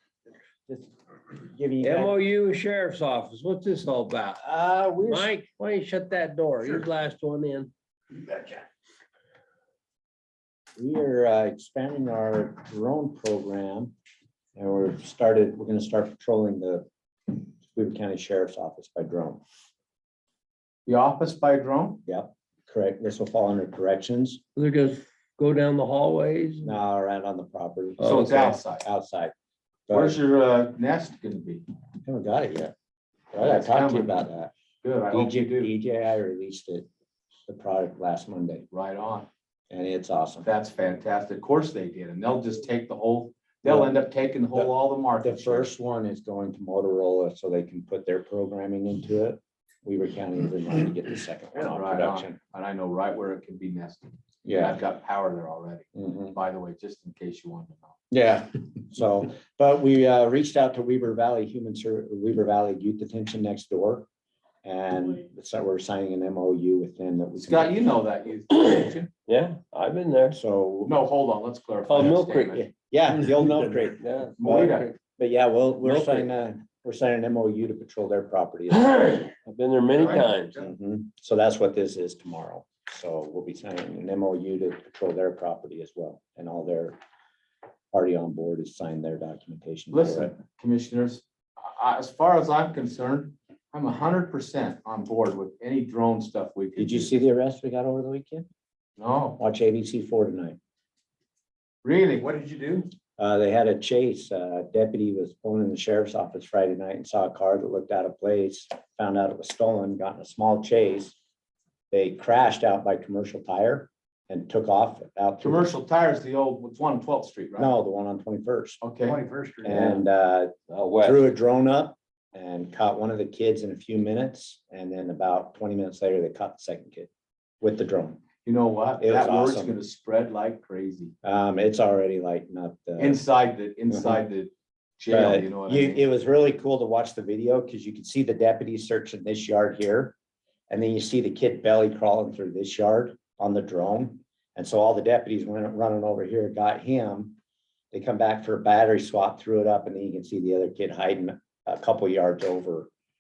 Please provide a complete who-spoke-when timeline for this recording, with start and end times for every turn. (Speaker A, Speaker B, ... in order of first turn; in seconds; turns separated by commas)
Speaker A: 0.7-2.1, Speaker B: 1.8-4.4, Speaker A: 4.4-5.3, Speaker B: 5.1-7.7, Speaker A: 10.8-13.9, Speaker A: 14.6-19.4, Speaker C: 20.9-22.0, Speaker A: 22.1-24.4, Speaker B: 24.6-26.8, Speaker A: 26.6-29.3, Speaker B: 28.0-28.5, Speaker C: 28.0-28.8, Speaker A: 29.9-30.2, Speaker C: 29.9-31.6, Speaker A: 32.0-32.7, Speaker A: 33.3-34.5, Speaker C: 33.4-34.1, Speaker C: 34.8-35.7, Speaker A: 35.1-36.9, Speaker A: 37.5-38.7, Speaker C: 38.7-39.3, Speaker A: 39.7-40.5, Speaker C: 40.4-45.7, Speaker A: 43.7-43.9, Speaker A: 44.5-52.4, Speaker C: 51.5-58.0, Speaker A: 54.5-54.8, Speaker A: 56.0-56.4, Speaker A: 58.1-64.1, Speaker A: 64.6-67.8, Speaker C: 67.4-69.1, Speaker B: 68.5-70.4, Speaker A: 70.3-71.0, Speaker C: 70.9-72.7, Speaker B: 71.9-72.7, Speaker A: 72.7-79.1, Speaker B: 74.0-75.0, Speaker C: 74.4-74.9, Speaker B: 75.8-76.3, Speaker B: 78.7-80.5, Speaker D: 80.0-80.7, Speaker A: 80.5-87.0, Speaker A: 87.9-90.3, Speaker C: 89.9-97.1, Speaker A: 96.8-98.5, Speaker C: 99.0-99.4, Speaker A: 99.4-100.6, Speaker C: 101.8-102.2, Speaker D: 102.2-102.9, Speaker A: 103.2-111.2, Speaker A: 111.9-115.7, Speaker C: 115.4-117.7, Speaker A: 117.6-118.8, Speaker C: 118.8-119.2, Speaker D: 119.0-119.9, Speaker A: 119.6-128.2, Speaker B: 119.7-120.0, Speaker B: 120.7-121.3, Speaker C: 128.4-131.1, Speaker A: 129.0-129.8, Speaker A: 131.2-133.2, Speaker C: 133.0-136.0, Speaker A: 133.9-134.2, Speaker A: 135.1-140.2, Speaker A: 140.7-147.4, Speaker A: 147.9-152.9